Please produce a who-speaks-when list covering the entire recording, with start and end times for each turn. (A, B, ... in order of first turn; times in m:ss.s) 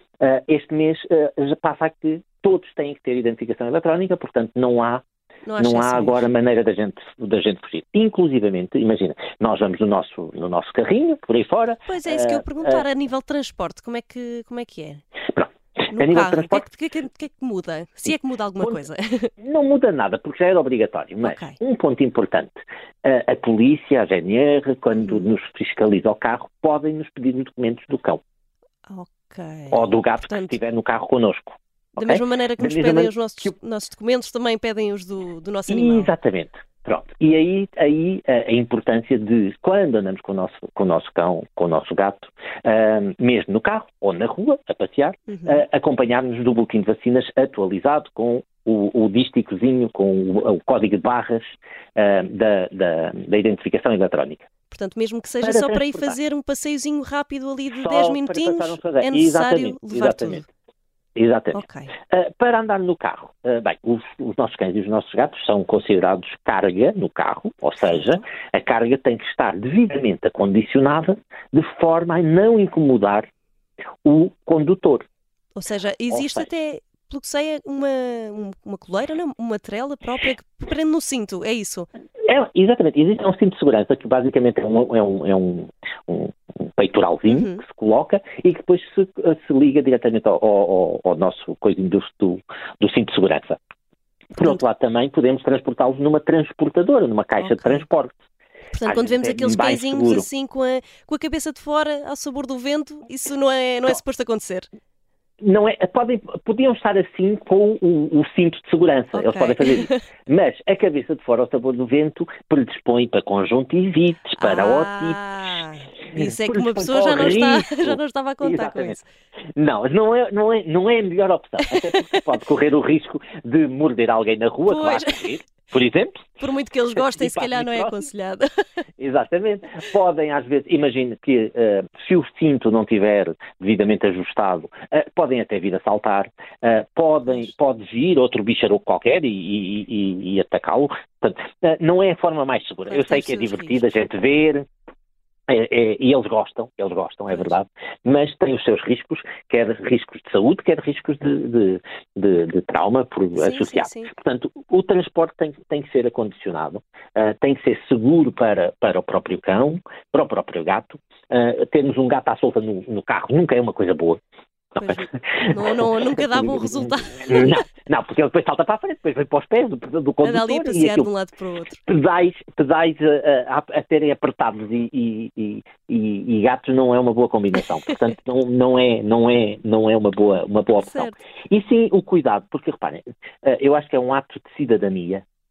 0:00.2-0:05.0 A
0:05.5-0:06.2 B
0:05.6-0:12.8 A
0:11.9-0:15.0 B
0:15.3-0:16.6 A
0:15.9-0:19.3 B
0:18.1-0:18.8 A
0:19.4-0:28.2 A
0:21.2-0:21.6 B
0:25.0-0:25.3 B
0:28.9-0:30.6 B
0:29.7-0:33.5 A
0:32.0-0:36.1 B
0:35.7-0:54.5 A
0:45.3-0:45.6 B
0:54.7-1:00.5 B
0:55.4-0:56.2 A
0:57.7-1:00.4 A
1:01.2-1:13.3 A
1:01.5-1:01.9 B
1:07.8-1:08.2 B
1:14.0-1:15.0 A
1:15.6-1:21.9 B
1:16.1-1:16.5 A
1:22.2-1:33.6 A
1:27.3-1:27.6 B
1:34.4-1:38.2 A
1:37.4-1:37.9 B
1:38.7-1:44.7 B
1:38.8-1:40.3 A
1:45.4-1:55.2 A
1:49.1-1:50.0 B
1:54.4-1:59.1 B
1:56.1-1:59.0 A
1:59.6-2:06.3 A
2:04.7-2:05.3 B
2:06.4-2:08.5 B
2:07.0-2:08.1 A
2:09.0-2:24.7 A
2:22.9-2:23.9 B
2:25.5-2:44.2 A
2:33.4-2:34.1 B
2:44.8-2:51.1 A
2:44.8-2:47.6 B
2:50.2-2:51.8 B
2:51.9-3:05.2 A
3:00.8-3:01.2 B